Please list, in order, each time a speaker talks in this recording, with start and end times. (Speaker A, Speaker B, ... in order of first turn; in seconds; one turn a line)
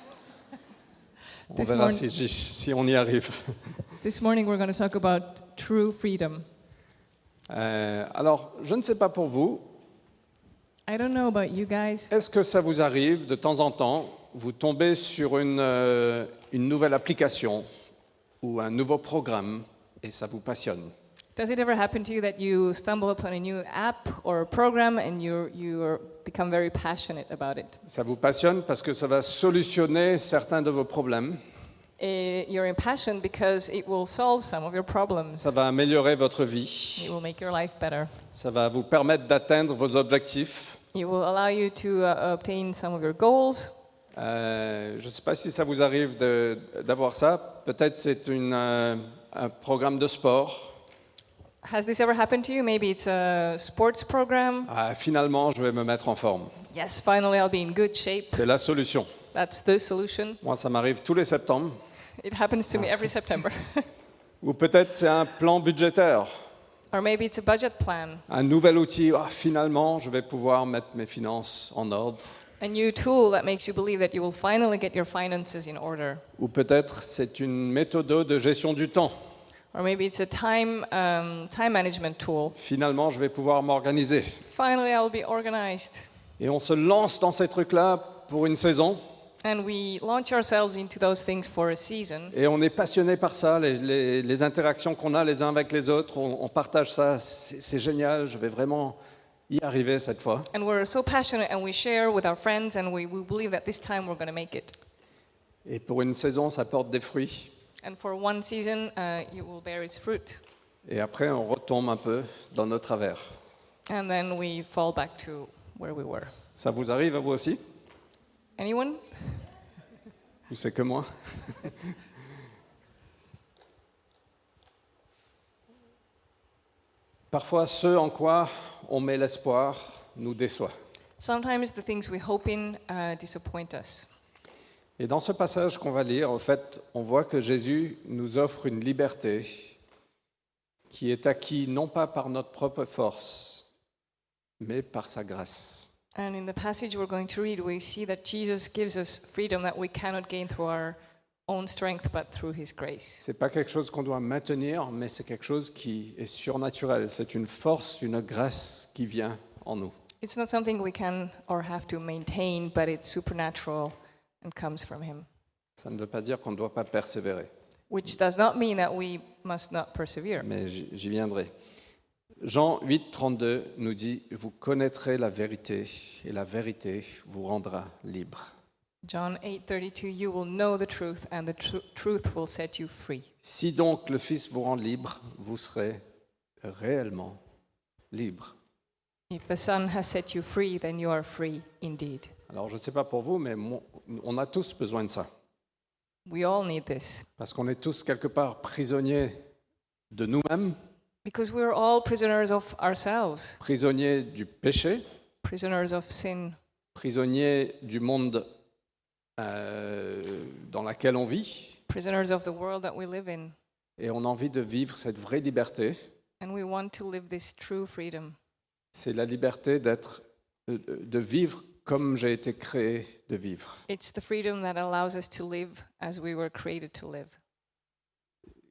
Speaker A: 1.5-3.6
Speaker B: 1.5-2.0
Speaker B: 4.0-6.5
Speaker A: 7.5-9.7
Speaker B: 10.9-12.1
Speaker A: 12.1-17.7
Speaker A: 18.4-20.9
Speaker B: 21.4-27.8
Speaker A: 27.9-31.4
Speaker B: 32.0-35.5
Speaker A: 35.4-37.1
Speaker B: 37.0-38.1
Speaker A: 38.3-40.8
Speaker B: 40.9-43.8
Speaker A: 44.1-50.8
Speaker B: 51.6-54.7
Speaker A: 54.7-56.6
Speaker B: 56.7-58.4
Speaker A: 58.3-59.1
Speaker B: 59.3-60.4
Speaker A: 60.4-61.8
Speaker B: 62.2-63.9
Speaker A: 64.4-66.3
Speaker B: 66.9-68.3
Speaker A: 68.3-72.4
Speaker B: 72.6-76.2
Speaker A: 76.4-79.2
Speaker B: 79.7-82.5
Speaker A: 82.6-84.4
Speaker B: 84.5-86.1
Speaker A: 86.4-89.0
Speaker B: 89.4-92.3
Speaker A: 92.3-99.0
Speaker A: 99.5-100.5
Speaker B: 100.5-104.8
Speaker A: 105.7-107.5
Speaker B: 107.8-110.4
Speaker A: 110.9-113.3
Speaker B: 113.9-116.3
Speaker A: 116.6-117.6
Speaker B: 118.6-119.5
Speaker A: 120.5-121.8
Speaker A: 127.3-130.7
Speaker B: 131.2-134.1
Speaker A: 135.0-139.8
Speaker A: 140.9-143.7
Speaker A: 144.6-145.9
Speaker B: 146.2-153.2
Speaker A: 153.2-159.9
Speaker B: 160.2-165.3
Speaker A: 165.8-167.5
Speaker B: 167.9-170.5
Speaker A: 170.4-171.5
Speaker A: 172.4-178.5
Speaker B: 179.0-183.3
Speaker A: 183.4-186.0
Speaker A: 186.6-187.4
Speaker A: 188.1-188.5
Speaker B: 189.3-192.3
Speaker A: 192.5-195.3
Speaker B: 196.3-197.3
Speaker A: 197.4-199.4
Speaker A: 200.1-200.8
Speaker B: 201.2-203.6
Speaker A: 203.6-205.0
Speaker B: 205.4-206.6
Speaker A: 206.9-208.5
Speaker A: 209.4-211.8
Speaker B: 211.9-213.6
Speaker A: 214.0-216.0
Speaker B: 216.4-218.4
Speaker A: 218.9-223.8
Speaker B: 223.9-227.3